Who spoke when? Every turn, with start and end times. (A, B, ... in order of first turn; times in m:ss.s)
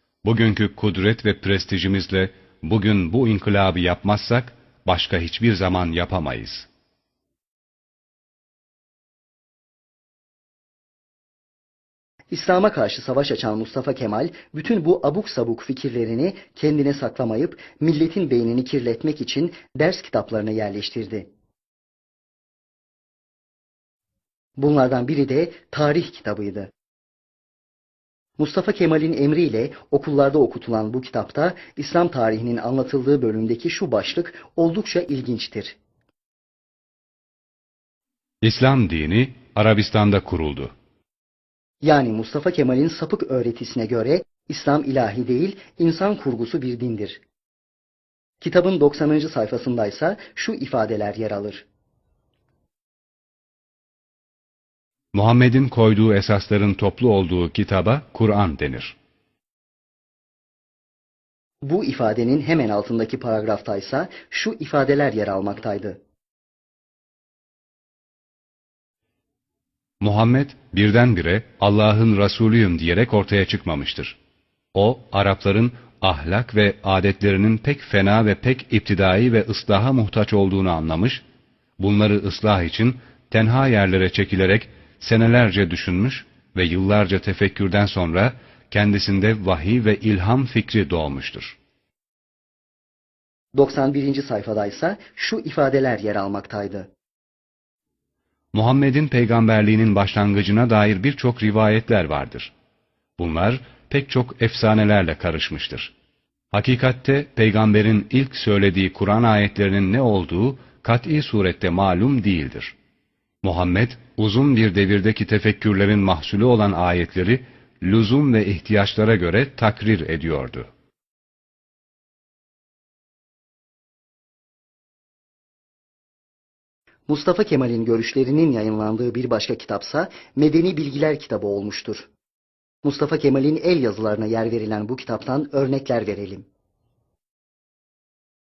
0:00.2-0:06.7 A
0:12.3-0:21.3 B
0:24.6-0:26.7 B
0:28.4-0:35.8 B
0:38.4-0:40.7 A
0:41.8-0:47.2 B
0:48.4-0:51.7 B
0:55.1-0:59.0 A
1:01.6-1:06.0 B
1:10.0-1:14.2 A
1:14.7-1:21.2 A
1:21.8-1:31.6 A
1:33.6-1:36.9 B
1:38.5-1:42.5 A
1:43.2-1:45.9 A
1:46.5-1:52.8 A
1:53.4-2:00.7 A
2:07.1-2:12.1 B
2:12.8-2:16.5 B